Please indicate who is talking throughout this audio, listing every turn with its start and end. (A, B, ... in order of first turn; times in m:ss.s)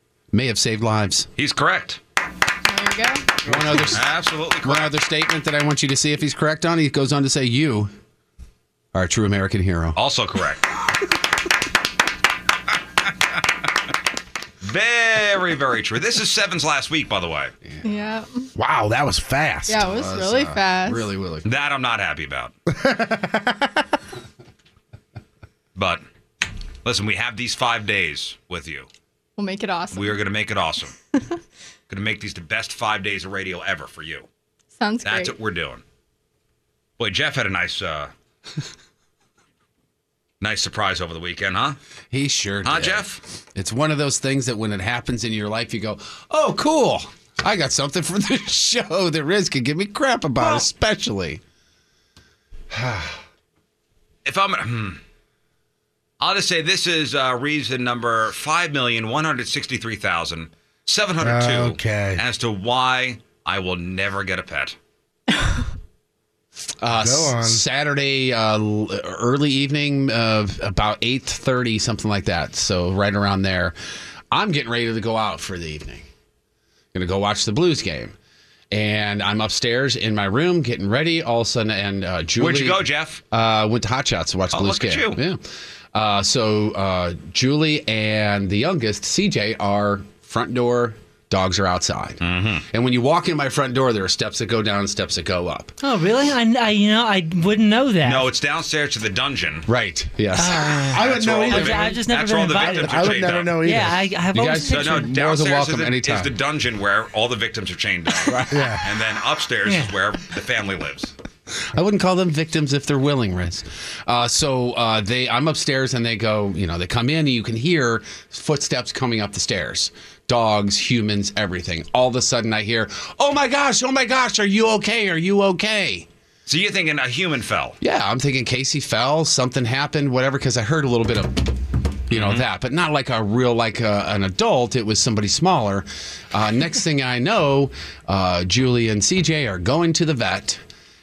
0:00.3-0:01.3 A
0:01.4-0:02.0 B
0:02.6-0:03.4 C
0:03.4-0:04.1 A
0:03.7-0:04.9 B
0:04.6-0:07.9 A
0:08.9-0:10.0 A
0:10.0-0:10.6 B
0:14.6-0:17.5 B
0:17.8-0:18.5 C
0:18.6-0:19.9 D
0:19.7-0:21.1 C
0:19.8-0:21.5 A
0:21.4-0:22.5 B
0:22.7-0:23.8 D
0:25.8-0:26.0 B
0:26.8-0:28.9 B
0:29.4-0:30.2 C
0:29.9-0:30.9 B
0:31.9-0:34.3 B
0:34.8-0:35.3 C
0:35.0-0:35.8 B
0:37.0-0:38.1 B
0:40.4-0:41.8 B
0:42.1-0:51.4 A
0:42.6-0:43.2 B
0:52.7-0:53.2 A
0:54.2-0:55.0 B
0:56.2-1:04.8 B
1:01.2-1:02.2 D
1:06.6-1:13.7 A
1:07.0-1:07.6 D
1:14.3-1:16.0 A
1:16.9-1:18.1 A
1:18.7-1:25.4 A
1:22.4-1:23.2 B
1:24.5-1:25.2 B
1:25.9-1:35.7 A
1:32.2-1:32.6 B
1:35.8-1:38.3 E
1:38.0-1:39.7 B
1:39.7-1:40.9 A
1:40.3-1:45.1 E
1:40.9-1:42.0 D
1:40.9-1:43.6 B
1:42.5-1:44.0 D
1:44.3-1:46.3 A
1:44.6-1:51.1 B
1:48.5-1:48.9 D
1:49.6-1:49.9 E
1:51.7-2:06.1 A
2:06.5-2:07.8 B
2:07.8-2:11.6 A
2:12.1-2:12.4 B
2:12.1-2:20.6 A